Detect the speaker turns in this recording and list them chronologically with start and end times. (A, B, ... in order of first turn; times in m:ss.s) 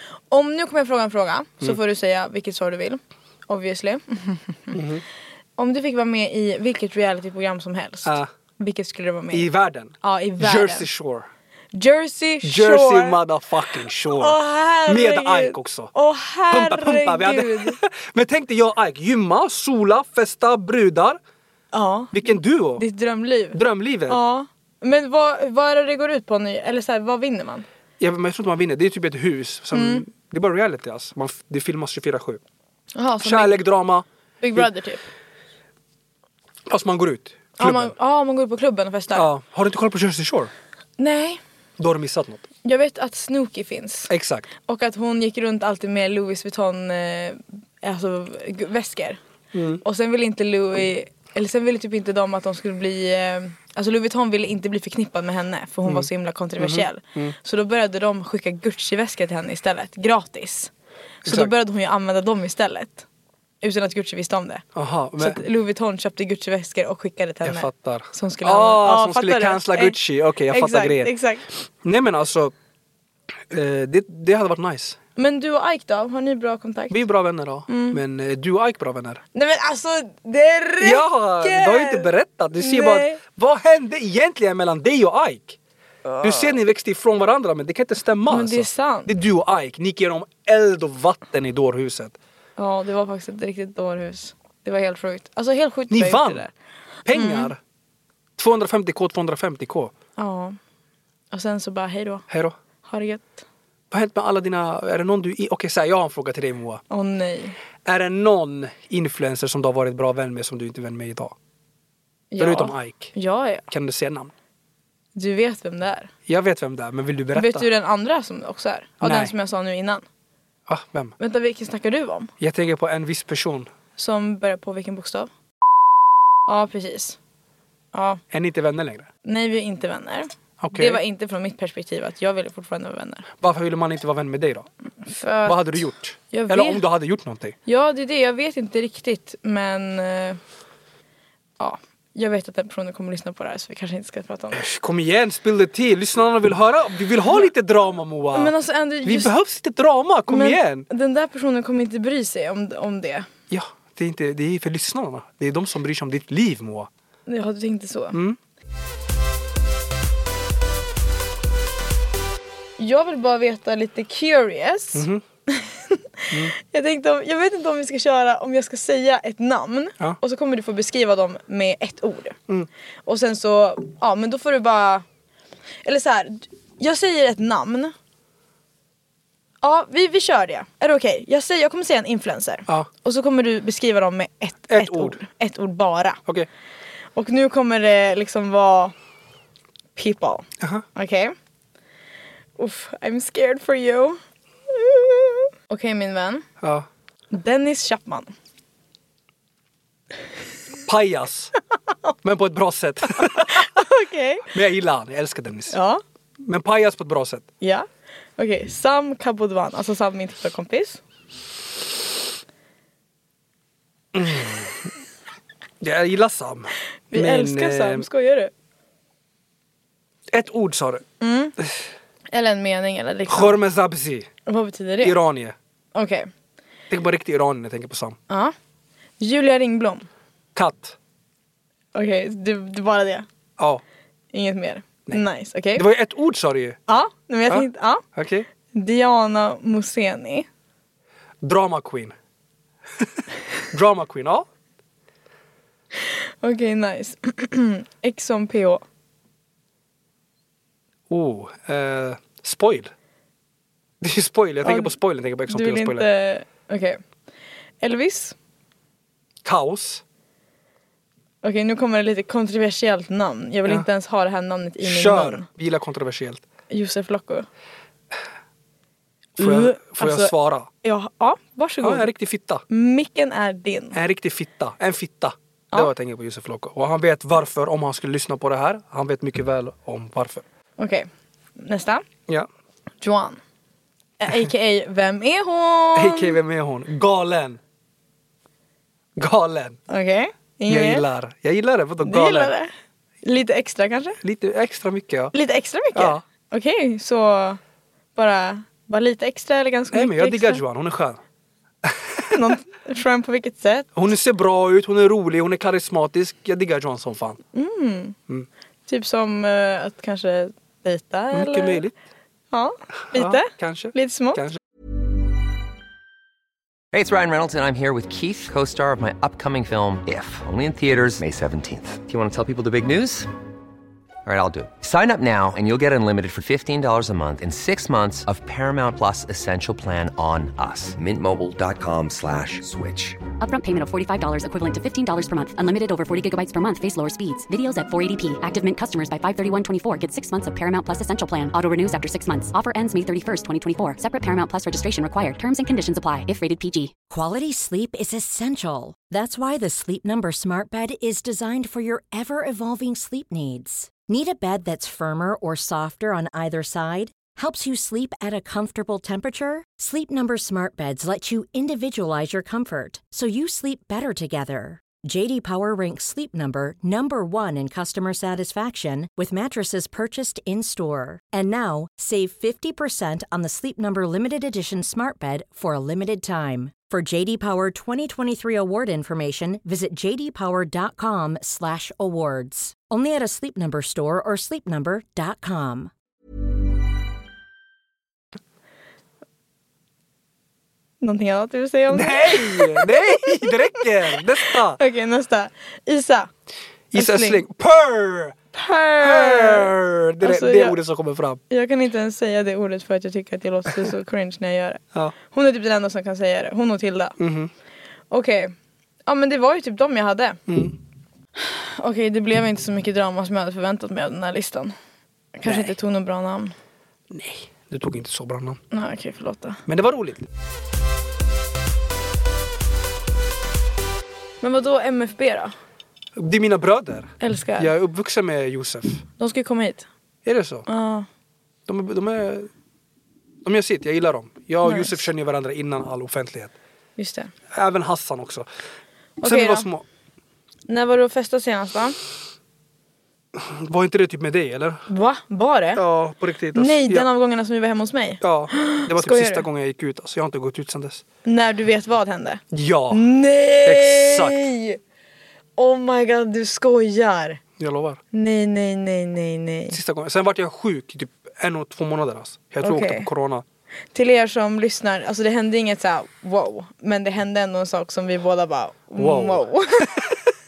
0:00.3-0:04.8 A
0:04.7-0:05.0 B
0:05.6-0:09.5 A
0:09.3-0:11.3 B
0:10.0-0:10.9 A
0:11.7-0:13.2 A
0:12.4-0:15.9 B
0:14.0-0:17.8 A
0:16.5-0:21.2 B
0:21.7-0:22.1 A
0:22.1-0:22.8 B
0:22.8-0:27.7 A
0:23.5-0:24.2 B
0:28.0-0:32.4 B
0:29.7-0:30.0 A
0:33.0-0:33.6 A
0:33.2-0:34.7 B
0:34.4-0:35.0 A
0:36.7-0:38.0 B
0:37.6-0:39.3 A
0:39.1-0:40.5 B
0:41.0-0:41.4 A
0:41.8-0:42.5 B
0:42.6-0:44.1 A
0:44.1-0:44.5 B
0:44.7-0:49.2 A
0:49.5-0:49.8 B
0:49.8-1:00.7 A
0:55.9-0:57.4 B
1:01.2-1:03.0 A
1:01.2-1:01.5 B
1:03.6-1:04.6 A
1:04.8-1:05.4 B
1:05.2-1:10.0 A
1:07.4-1:11.2 B
1:10.5-1:11.4 A
1:11.8-1:12.5 B
1:13.5-1:15.0 B
1:15.2-1:17.0 A
1:16.9-1:19.2 B
1:17.7-1:18.0 A
1:19.3-1:23.2 A
1:20.8-1:25.6 B
1:26.0-1:26.6 A
1:26.2-1:32.2 B
1:28.3-1:29.1 A
1:32.6-1:36.5 A
1:35.9-1:36.5 B
1:37.1-1:37.6 B
1:37.1-1:37.5 A
1:38.4-1:39.9 B
1:40.2-1:40.6 A
1:41.3-1:42.3 A
1:42.3-1:42.6 B
1:42.8-1:43.4 A
1:43.9-1:46.8 B
1:46.9-1:47.6 A
1:47.8-1:51.4 B
1:52.3-1:53.7 A
1:52.4-1:53.2 B
1:53.7-1:54.3 B
1:55.2-1:56.1 A
1:56.3-1:57.7 B
1:57.4-2:00.0 A
1:59.0-1:59.3 B
2:00.7-2:01.2 B
2:01.2-2:02.3 A
2:02.4-2:03.7 B
2:04.0-2:05.3 A
2:06.5-2:07.2 A
2:07.9-2:08.2 A
2:08.3-2:09.1 B
2:09.2-2:13.3 A
2:10.6-2:11.0 B
2:13.4-2:14.7 B
2:15.0-2:16.8 A
2:15.5-2:17.6 B
2:17.7-2:20.4 A
2:21.6-2:24.6 A
2:24.5-2:30.9 B
2:28.3-2:29.3 A
2:30.3-2:33.3 A
2:33.5-2:36.9 B
2:37.3-2:38.2 A
2:38.1-2:38.4 B
2:42.8-2:52.4 A
2:45.0-2:45.2 B
2:53.1-2:55.0 A
2:55.8-2:57.9 A
2:59.6-3:06.2 A
3:04.7-3:05.2 B
3:07.2-3:08.9 A
3:10.0-3:11.3 A
3:10.6-3:10.9 B
3:12.6-3:14.2 A
3:14.7-3:16.5 A
3:16.6-3:16.9 B
3:17.3-3:18.3 A
3:20.9-3:21.5 B
3:22.2-3:23.7 B
3:23.2-3:24.5 A
3:24.5-3:25.8 B
3:25.7-3:26.0 A
3:26.4-3:27.5 B
3:27.6-3:31.0 A
3:34.1-3:34.9 B
3:35.8-3:38.1 B
3:37.1-3:38.5 A
3:40.3-3:41.0 B
3:41.2-3:41.6 A
3:42.3-3:43.6 A
3:43.3-3:44.3 B
3:44.5-3:45.2 A
3:45.0-3:45.6 B
3:46.0-3:46.3 A
3:46.9-3:48.2 B
3:48.3-3:48.5 A
3:49.2-3:50.1 A
3:50.6-3:51.0 B
3:51.9-3:53.3 A
3:53.6-3:53.8 B
3:54.3-3:55.9 A
3:55.7-3:56.8 B
3:56.9-3:58.0 A
3:57.5-3:58.5 B
3:58.7-4:00.5 A
4:01.4-4:02.2 B
4:03.0-4:04.5 B
4:06.0-4:08.8 A
4:11.1-4:12.9 B
4:14.0-4:16.1 B
4:14.6-4:15.0 A
4:15.5-4:17.0 A
4:17.8-4:18.4 A
4:19.4-4:20.0 B
4:21.4-4:25.5 A
4:24.8-4:26.4 B
4:26.7-4:27.5 A
4:29.4-4:30.7 B
4:29.4-4:32.1 A
4:31.8-4:32.6 B
4:32.7-4:34.0 A
4:33.9-4:40.4 B
4:40.8-4:42.0 A
4:43.0-4:43.4 A
4:44.2-4:46.4 A
4:46.0-4:47.6 B
4:49.2-4:49.8 B
4:49.9-4:51.1 A
4:50.7-4:52.5 B
4:52.0-4:52.7 A
4:53.2-4:54.2 A
4:54.2-4:55.3 B
4:55.3-4:57.6 A
4:55.9-4:56.2 B
4:58.2-5:00.6 A
4:59.9-5:01.2 B
5:01.8-5:02.4 B
5:02.3-5:03.9 A
5:04.0-5:07.4 B
5:07.5-5:08.2 A
5:08.9-5:11.8 A
5:11.3-5:12.0 B
5:12.5-5:14.4 A
5:13.1-5:14.6 B
5:16.9-5:23.3 C
5:24.2-5:33.2 C
5:33.4-5:46.9 D
5:47.1-6:25.9 E
6:31.0-6:36.3 A
6:31.9-6:34.8 B
6:36.9-6:38.4 B
6:36.9-6:37.4 A
6:38.5-6:40.8 A
6:39.0-6:41.4 B
6:41.5-6:47.2 A
6:47.2-6:47.5 B
6:48.1-6:48.5 A
6:49.1-6:50.4 A
6:50.5-6:50.8 B
6:51.4-6:54.8 A
6:55.4-6:56.5 A
6:55.4-6:55.8 B
6:57.1-6:58.6 B
6:58.7-6:59.6 A
6:59.7-7:00.3 B
7:04.4-7:05.5 A
7:06.2-7:09.0 B
7:07.2-7:07.7 A
7:09.2-7:09.9 A
7:10.2-7:10.7 B
7:10.7-7:11.1 A
7:11.7-7:12.5 B
7:13.4-7:16.5 B
7:14.6-7:15.0 A
7:17.0-7:17.3 A
7:17.5-7:18.5 B
7:19.2-7:19.7 A
7:19.2-7:19.8 B
7:20.7-7:22.0 A
7:23.3-7:24.8 B
7:24.9-7:25.8 A
7:25.8-7:27.1 B
7:26.5-7:29.5 A
7:28.2-7:31.0 B
7:31.2-7:34.8 A
7:32.5-7:33.0 B
7:33.6-7:34.5 B
7:35.6-7:37.4 A
7:37.6-7:38.0 B
7:38.1-7:39.8 A
7:39.7-7:43.4 B
7:42.6-7:43.1 A
7:43.9-7:49.9 A
7:49.0-7:50.2 B